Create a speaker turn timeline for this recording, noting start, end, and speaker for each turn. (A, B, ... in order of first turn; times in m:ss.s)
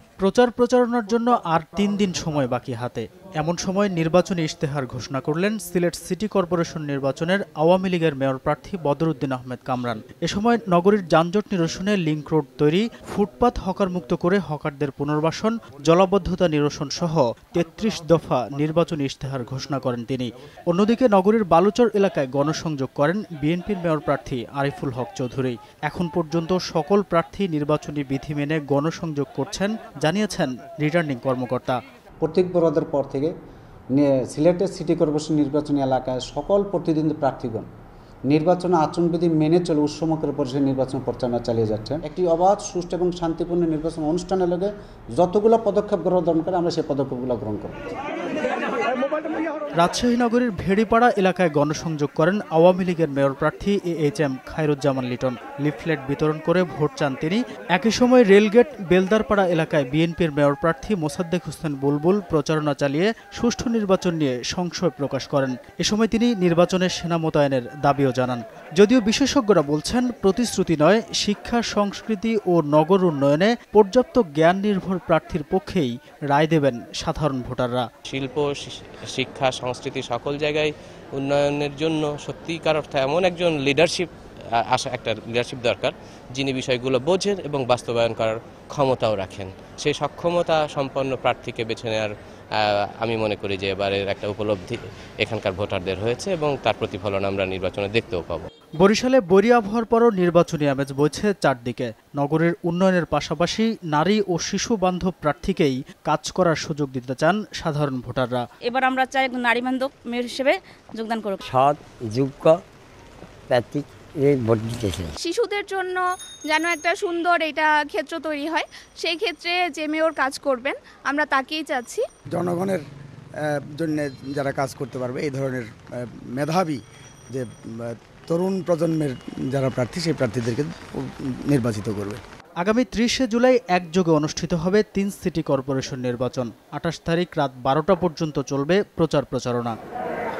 0:00.2-0:31.8 A
0:32.2-0:33.3 B
0:33.9-0:37.7 B
0:38.3-0:48.0 B
0:49.8-1:17.9 A
1:18.1-1:24.1 C
1:24.7-1:38.5 C
1:38.8-1:48.4 A
1:48.6-1:51.4 D
1:51.4-1:52.6 E
1:53.5-1:55.1 E
1:55.2-2:02.0 F
2:02.3-2:02.8 G
2:03.5-2:06.8 G
2:07.3-2:12.2 G
2:12.6-2:19.8 A